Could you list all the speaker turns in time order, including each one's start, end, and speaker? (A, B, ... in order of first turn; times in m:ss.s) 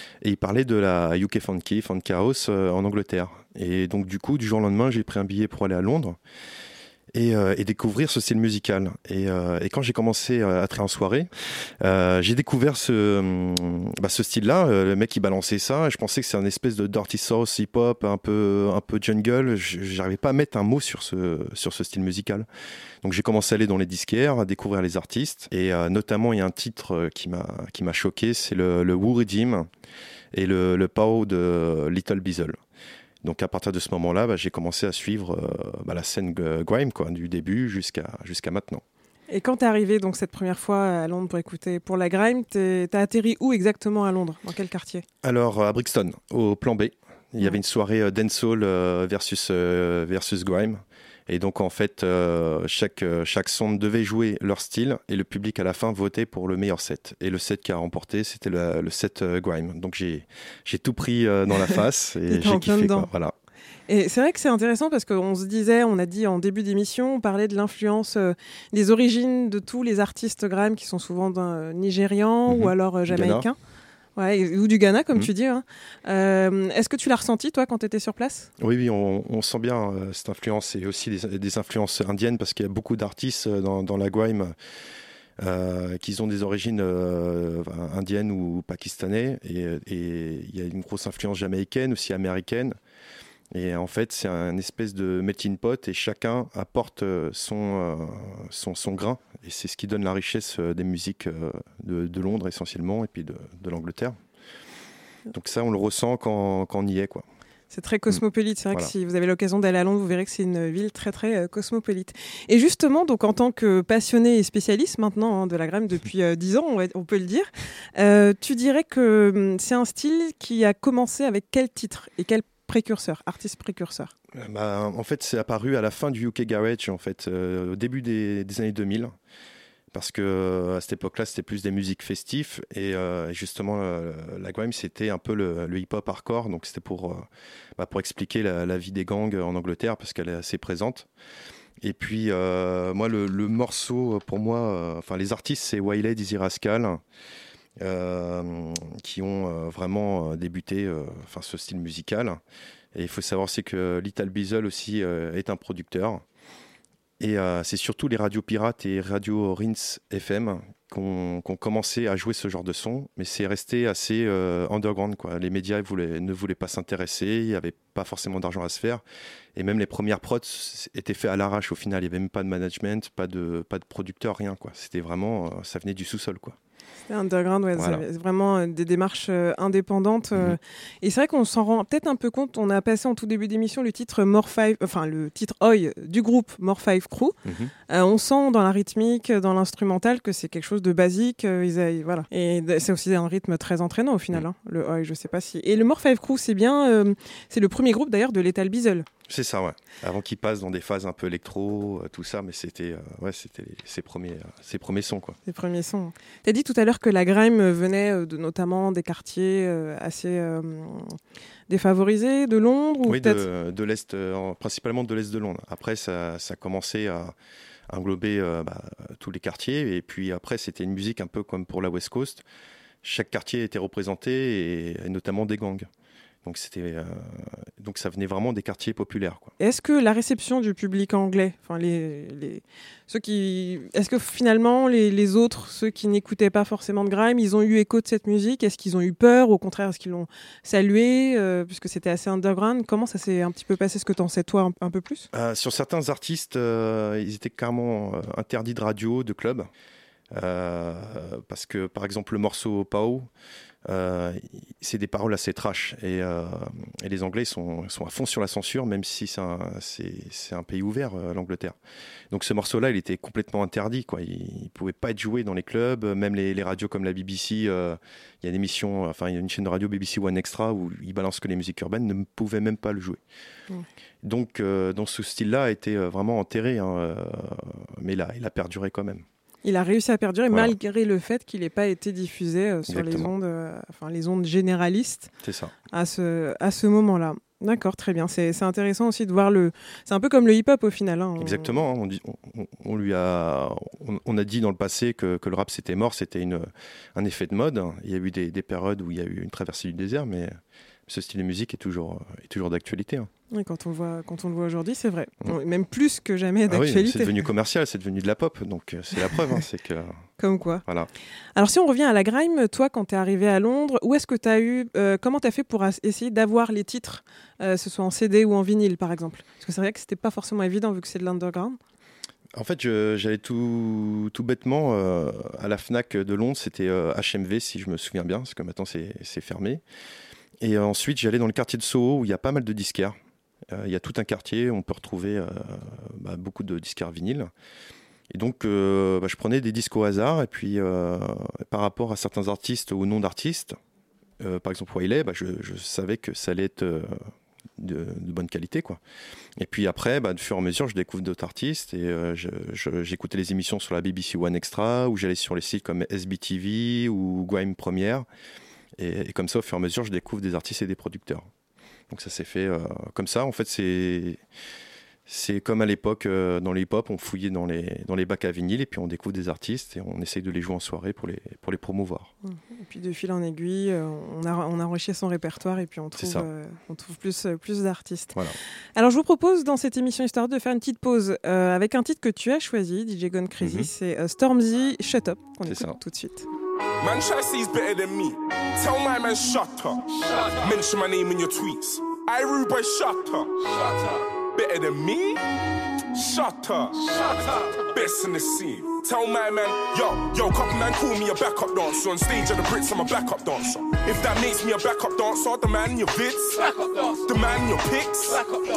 0:00.2-0:06.2 A
0:07.1-0:11.3 A
0:11.8-0:22.5 A
0:23.0-0:29.7 A
0:30.3-0:32.6 A
0:33.2-0:38.8 A
0:39.3-0:45.0 B
0:45.2-1:03.3 A
1:02.3-1:03.1 B
1:03.9-1:13.6 B
1:12.5-1:13.5 A
1:14.2-1:18.5 B
1:18.6-1:24.6 A
1:25.4-1:32.8 A
1:33.5-1:44.2 A
1:45.3-1:47.2 A
1:47.7-2:04.1 B
2:04.4-2:09.1 A
2:09.9-2:21.1 A
2:21.8-2:27.0 A
2:27.8-2:32.4 A
2:33.0-2:36.2 A
2:37.2-2:49.0 A
2:49.6-2:56.6 A
2:57.1-3:07.4 B
2:57.8-2:58.0 A
3:07.5-3:07.7 A
3:07.9-3:19.1 B
3:19.3-3:25.4 A
3:25.5-3:33.4 B
3:33.1-3:37.3 A
3:37.9-3:42.4 A
3:43.0-3:45.9 A
3:46.4-3:49.5 A
3:49.6-4:05.3 B
4:05.3-4:09.7 A
4:10.3-4:13.3 A
4:13.9-4:21.8 A
4:22.3-4:33.2 A
4:34.2-4:39.2 A
4:39.6-4:45.3 B
4:42.9-4:43.3 A
4:45.4-4:45.7 A
4:45.9-4:51.8 B
4:51.4-5:00.6 A
5:01.1-5:03.3 A
5:03.5-5:07.3 B
5:06.7-5:10.2 A
5:10.4-5:10.8 B
5:11.6-5:21.8 B
5:22.6-5:29.8 A
5:30.6-5:33.2 A
5:33.7-5:37.5 A
5:38.3-5:43.8 A
5:44.4-5:47.2 A
5:47.8-5:49.0 A
5:49.6-5:58.3 A
5:59.0-6:01.5 A
6:02.1-6:04.4 A
6:05.3-6:12.3 A
6:12.4-6:18.4 B
6:16.2-6:16.5 A
6:19.0-6:26.5 B
6:23.6-6:23.9 A
6:25.7-6:26.0 A
6:27.0-6:33.5 C
6:34.5-6:35.4 C
6:36.2-6:37.0 C
6:37.8-6:48.4 C